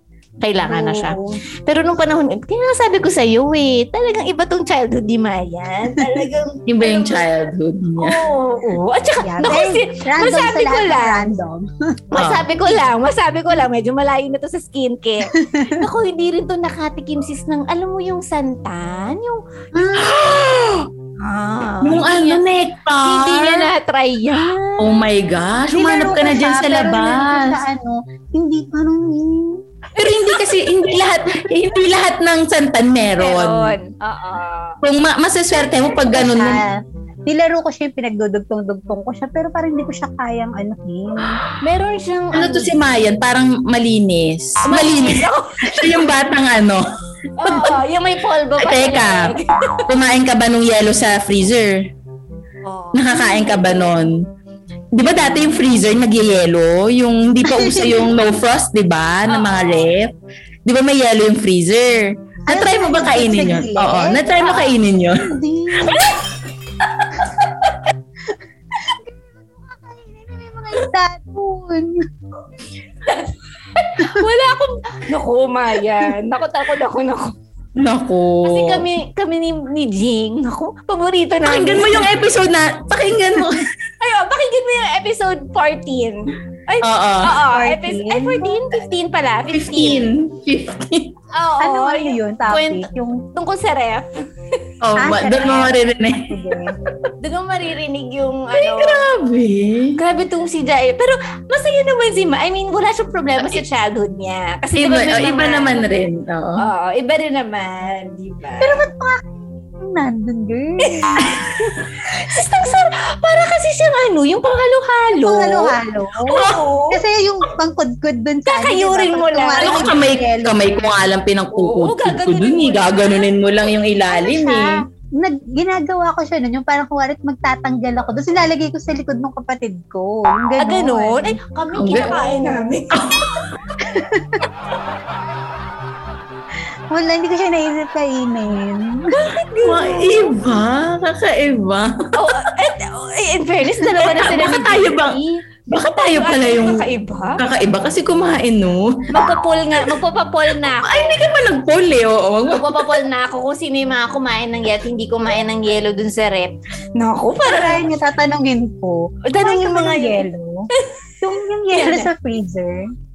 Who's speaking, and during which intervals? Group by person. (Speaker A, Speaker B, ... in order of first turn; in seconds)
Speaker A: 0.4-7.3, 8.0-11.3, 12.1-20.0, 21.2-22.4, 23.0-25.1, 30.0-30.5, 33.2-34.8, 41.6-42.7, 44.6-46.0, 47.4-49.9, 52.6-53.9, 59.3-59.9, 73.0-77.3, 78.4-82.1, 84.0-90.1, 91.3-94.7, 97.2-99.1, 100.0-105.8, 106.6-108.8, 110.9-117.0, 118.5-120.2, 121.5-123.3, 130.6-133.1, 139.1-140.3, 142.1-145.4, 145.9-147.4, 149.1-151.2, 152.5-157.8, 159.2-160.2, 161.7-162.1
Speaker B: 0.6-1.4, 9.2-12.0, 15.3-15.8, 19.8-20.2, 25.7-29.6, 36.1-41.4, 57.6-57.9, 62.5-64.7, 65.2-66.2, 68.7-72.1, 87.4-88.6, 91.6-93.2, 95.0-96.8, 108.6-112.4, 115.1-120.6, 124.1-131.4, 133.9-134.5, 136.9-139.3, 157.4-160.7, 161.2-162.9
Speaker C: 6.7-8.2, 12.1-12.5, 20.0-20.9, 21.8-23.7, 24.8-27.6, 30.0-33.8, 34.8-36.6, 42.3-46.9, 47.5-47.7, 48.6-49.4, 49.9-51.9, 52.9-54.3, 54.9-60.1, 60.7-66.1, 77.8-78.9, 81.5-83.7, 86.8-87.4, 89.5-91.1, 94.8-96.6, 98.5-100.0, 104.8-106.6, 119.6-124.8, 131.8-133.5, 139.6-142.3, 143.8-149.1, 150.6-153.0